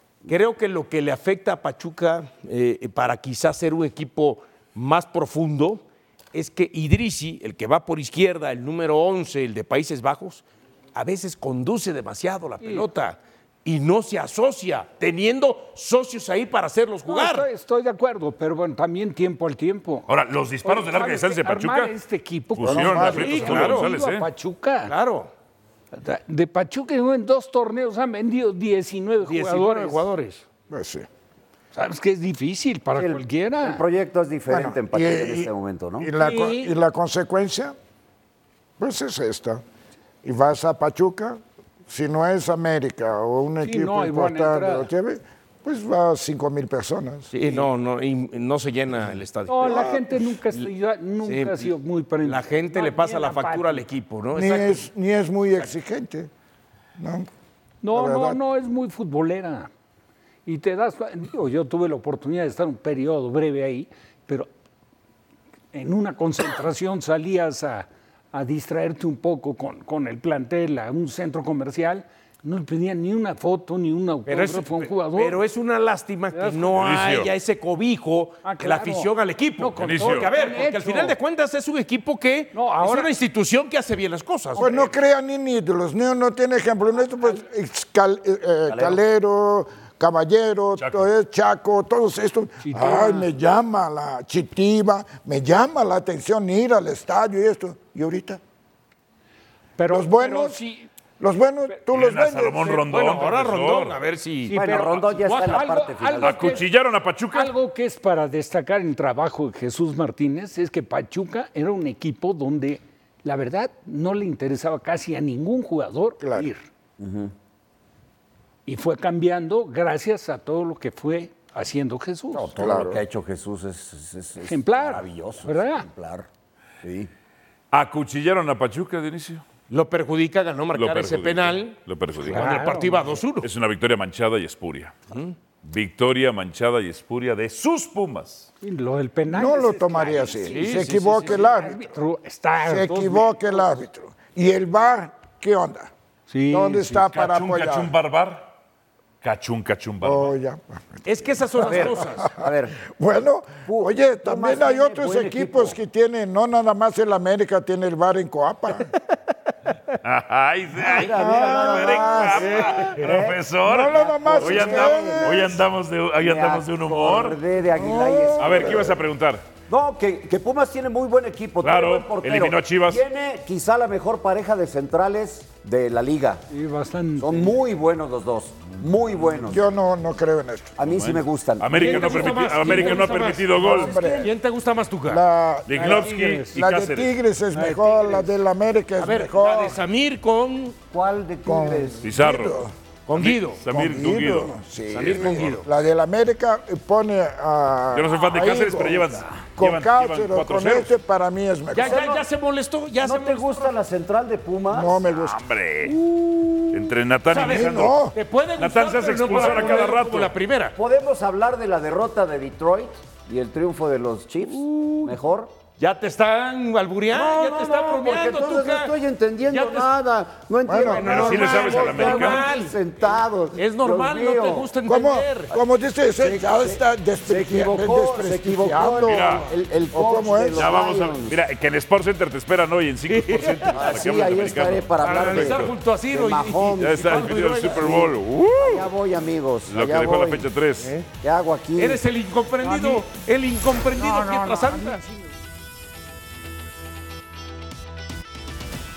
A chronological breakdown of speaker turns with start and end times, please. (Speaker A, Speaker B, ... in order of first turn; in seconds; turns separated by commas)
Speaker A: 0.3-17.5, Speaker B: 12.6-12.9, Speaker B: 17.1-20.1, Speaker C: 20.1-21.9, Speaker B: 20.6-24.9, Speaker C: 22.6-24.3, Speaker D: 22.6-23.6, Speaker A: 23.1-23.9, Speaker A: 24.9-25.3, Speaker B: 25.9-30.4, Speaker A: 29.2-30.2, Speaker D: 30.7-31.1, Speaker B: 31.7-33.8, Speaker E: 33.0-36.1, Speaker D: 34.5-37.8, Speaker B: 36.2-36.7, Speaker D: 38.8-39.6, Speaker D: 40.2-47.3, Speaker B: 43.6-44.9, Speaker A: 47.3-49.9, Speaker B: 49.5-53.9, Speaker D: 49.7-50.0, Speaker A: 51.2-51.7, Speaker A: 52.2-54.8, Speaker D: 54.3-56.3, Speaker D: 57.0-57.3, Speaker B: 57.8-59.7, Speaker D: 57.9-58.4, Speaker B: 60.5-64.5, Speaker B: 65.7-75.4, Speaker A: 74.3-84.9, Speaker B: 76.3-76.8, Speaker C: 76.7-77.3, Speaker B: 78.4-81.2, Speaker C: 79.8-80.3, Speaker B: 82.5-83.1, Speaker D: 84.6-98.4, Speaker E: 88.7-89.0, Speaker C: 90.8-91.0, Speaker B: 92.6-93.3, Speaker B: 99.8-100.9, Speaker D: 99.9-100.6, Speaker D: 101.2-102.8, Speaker C: 101.9-104.0, Speaker A: 102.9-104.6, Speaker B: 104.5-106.7, Speaker E: 104.5-106.6, Speaker C: 106.2-107.5, Speaker B: 107.3-116.7, Speaker D: 116.2-116.5, Speaker E: 117.0-117.3, Speaker B: 118.7-122.5, Speaker E: 122.3-126.3, Speaker D: 122.6-123.0, Speaker B: 124.5-125.9, Speaker E: 126.8-127.1, Speaker C: 127.7-129.4, Speaker A: 129.7-133.5, Speaker C: 130.7-132.5, Speaker B: 132.3-133.2, Speaker C: 133.4-135.0, Speaker C: 135.6-138.5, Speaker B: 138.6-143.6, Speaker D: 139.3-141.8, Speaker A: 140.5-141.5, Speaker D: 142.7-145.9, Speaker B: 146.3-147.0, Speaker D: 146.5-147.9, Speaker C: 147.0-148.5, Speaker C: 149.2-150.3, Speaker D: 150.0-158.9, Speaker A: 151.1-152.3, Speaker E: 151.6-152.8, Speaker E: 153.7-155.8, Speaker C: 160.0-167.4, Speaker E: 160.8-165.5, Speaker D: 161.0-163.1, Speaker D: 163.6-165.6, Speaker E: 166.2-168.9, Speaker D: 167.8-169.0, Speaker C: 168.4-169.5, Speaker E: 169.7-176.5, Speaker C: 171.6-173.0, Speaker B: 176.5-177.6, Speaker E: 177.2-179.6, Speaker D: 179.5-180.8, Speaker E: 180.8-184.3, Speaker C: 180.8-183.9, Speaker A: 181.7-185.2, Speaker D: 183.6-184.3, Speaker D: 185.1-189.8, Speaker C: 185.7-187.1, Speaker B: 185.7-186.6, Speaker B: 187.6-188.3, Speaker A: 189.0-190.8, Speaker E: 190.9-192.1, Speaker D: 191.4-192.7, Speaker C: 192.0-192.6, Speaker A: 193.1-193.6, Speaker C: 193.2-194.5, Speaker D: 193.7-202.0, Speaker A: 194.9-195.7, Speaker C: 195.1-195.4, Speaker C: 197.9-200.9, Speaker A: 201.7-203.7, Speaker E: 201.8-202.2, Speaker E: 203.0-205.0, Speaker D: 204.7-205.4, Speaker C: 205.1-205.9, Speaker E: 206.1-206.7, Speaker C: 206.7-208.0, Speaker A: 207.3-210.8, Speaker D: 207.4-208.2, Speaker C: 208.6-210.3, Speaker E: 209.4-209.9, Speaker E: 210.8-215.5, Speaker A: 214.5-215.2, Speaker A: 215.8-218.9, Speaker E: 217.1-224.7, Speaker A: 219.5-219.9, Speaker D: 220.7-221.7, Speaker A: 221.0-225.6, Speaker C: 221.0-222.5, Speaker D: 224.8-230.8, Speaker E: 226.2-231.3, Speaker C: 229.0-229.5, Speaker C: 230.6-235.7, Speaker A: 233.1-233.9, Speaker E: 233.7-240.5, Speaker A: 235.0-238.1, Speaker C: 236.8-238.9, Speaker C: 239.7-240.9, Speaker A: 240.8-241.1, Speaker E: 241.2-242.0, Speaker A: 241.8-245.0, Speaker B: 242.6-243.1, Speaker B: 243.9-245.2